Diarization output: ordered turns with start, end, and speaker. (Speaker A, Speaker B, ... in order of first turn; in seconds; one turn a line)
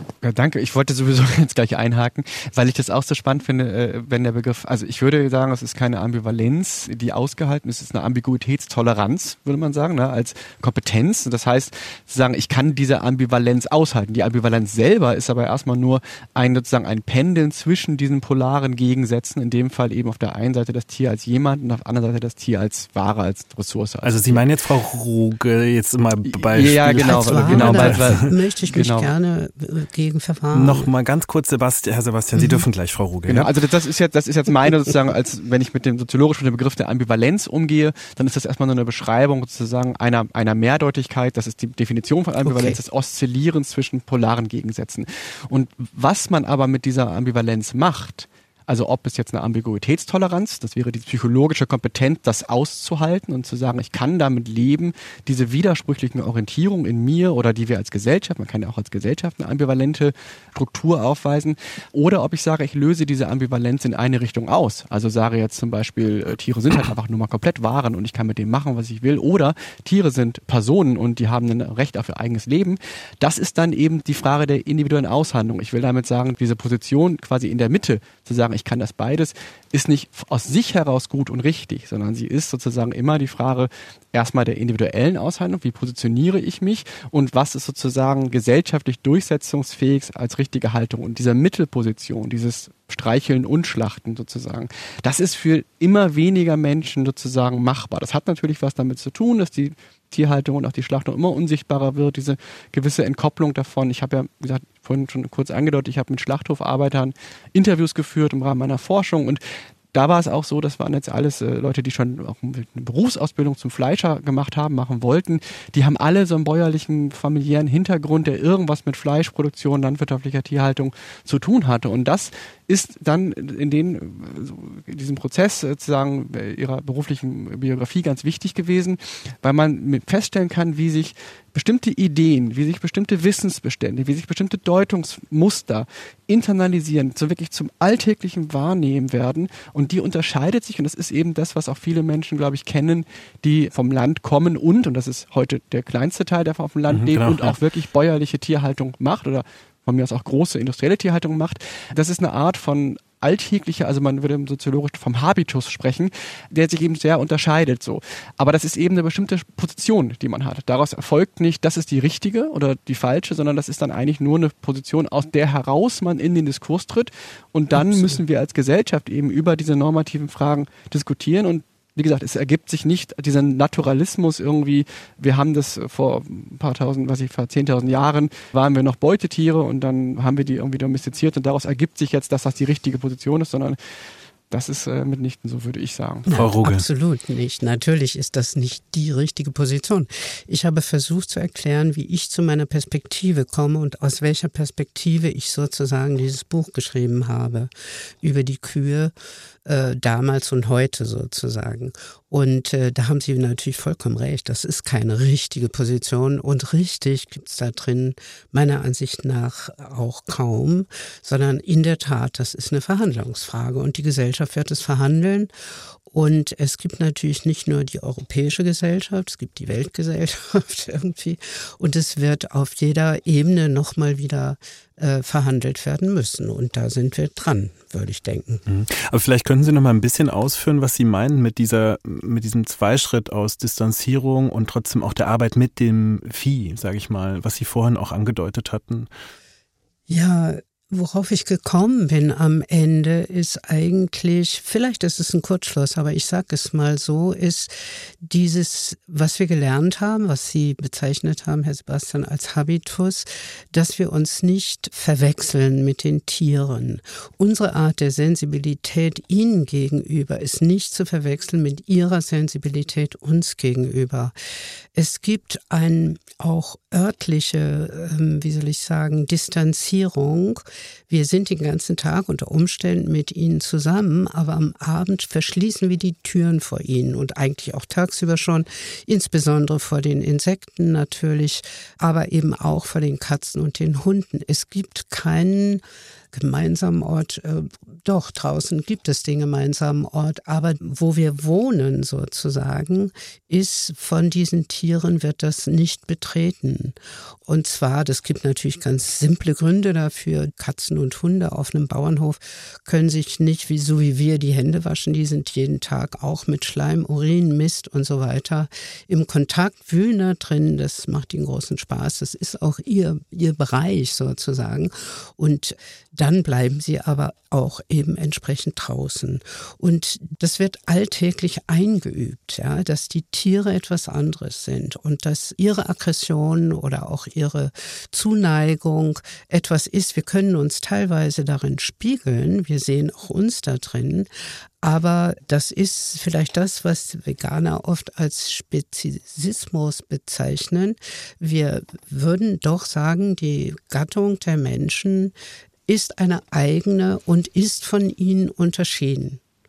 Speaker A: 0.2-24.5
Speaker B: 24.0-28.3
Speaker A: 26.2-29.1
Speaker C: 26.9-30.9
Speaker B: 30.5-33.5
Speaker A: 33.3-109.4
Speaker C: 42.4-42.8
Speaker A: 109.9-183.8
Speaker B: 146.9-147.6
Speaker A: 184.5-186.3
Speaker C: 186.3-197.7
Speaker B: 186.3-186.8
Speaker C: 198.2-199.1
Speaker C: 199.6-215.5
Speaker C: 216.1-228.6
Speaker B: 228.7-239.1
Speaker C: 240.1-264.3
Speaker C: 264.9-334.3
Speaker C: 334.8-345.3
Speaker C: 345.9-349.4